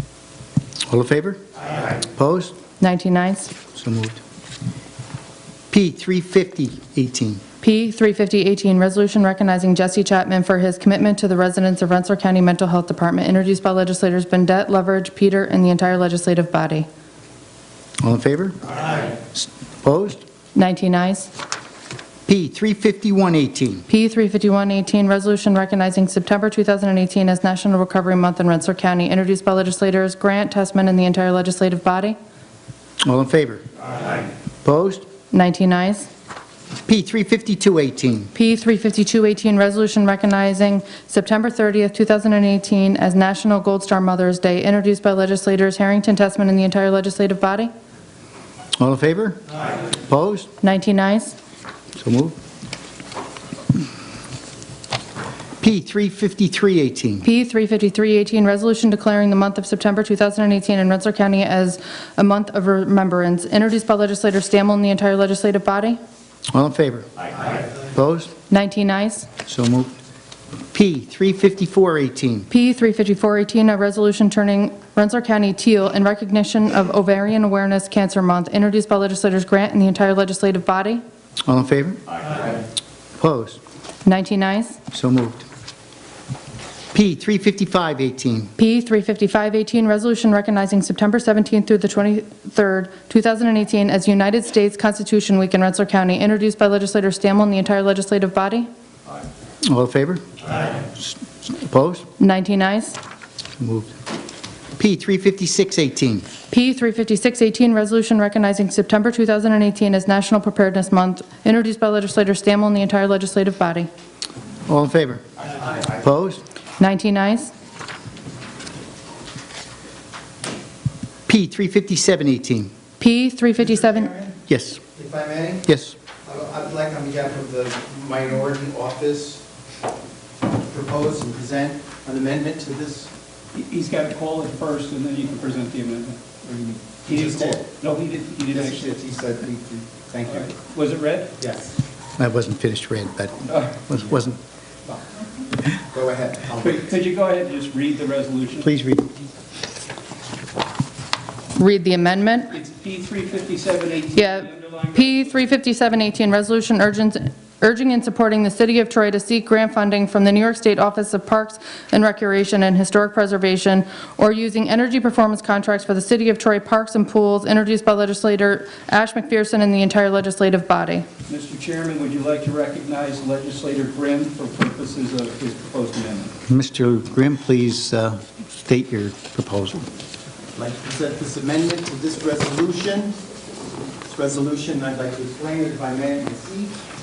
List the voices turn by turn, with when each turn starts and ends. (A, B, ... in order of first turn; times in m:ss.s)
0:00.9-0:02.5 A
0:02.8-0:03.5 B
0:03.8-0:04.2 A
0:05.7-0:07.4 A
0:07.6-0:16.9 B
0:18.0-0:20.2 A
0:20.6-0:21.3 B
0:22.3-0:23.9 A
0:23.9-0:32.2 B
0:33.0-0:35.1 A
0:35.3-0:36.1 B
0:36.9-0:38.3 A
0:38.3-0:47.7 B
0:48.8-0:50.5 A
0:50.6-0:51.4 B
0:52.0-0:52.4 A
0:55.6-0:57.3 A
0:57.2-1:06.0 B
1:06.5-1:08.3 A
1:08.5-1:09.3 B
1:09.4-1:09.9 A
1:10.7-1:12.5 A
1:12.5-1:21.0 B
1:21.4-1:22.3 A
1:23.2-1:23.6 A
1:24.0-1:24.8 B
1:24.9-1:25.5 A
1:26.9-1:28.5 A
1:28.6-1:38.7 B
1:39.6-1:42.0 A
1:42.2-1:43.0 B
1:43.6-1:43.9 A
1:44.8-1:46.3 A
1:46.5-1:53.9 B
1:54.7-1:55.2 A
1:55.5-1:56.0 C
1:55.9-1:56.4 A
1:56.8-1:57.5 B
2:01.3-2:02.7 A
2:03.0-2:04.1 B
2:03.6-2:04.4 C
2:04.5-2:04.8 A
2:05.0-2:05.7 C
2:05.7-2:06.0 A
2:06.2-2:09.4 C
2:10.5-2:13.1 C
2:13.5-2:19.0 D
2:17.0-2:17.7 C
2:18.5-2:20.5 C
2:20.3-2:21.3 D
2:21.4-2:21.7 C
2:22.2-2:24.4 A
2:24.9-2:25.2 C
2:25.8-2:26.9 C
2:26.6-2:28.7 D
2:28.6-2:29.1 A
2:31.6-2:32.5 B
2:32.5-2:35.3 D
2:34.2-2:51.1 B
2:51.3-2:56.3 D
2:56.5-2:59.9 A
3:00.6-3:03.2 C
3:04.0-3:06.7 C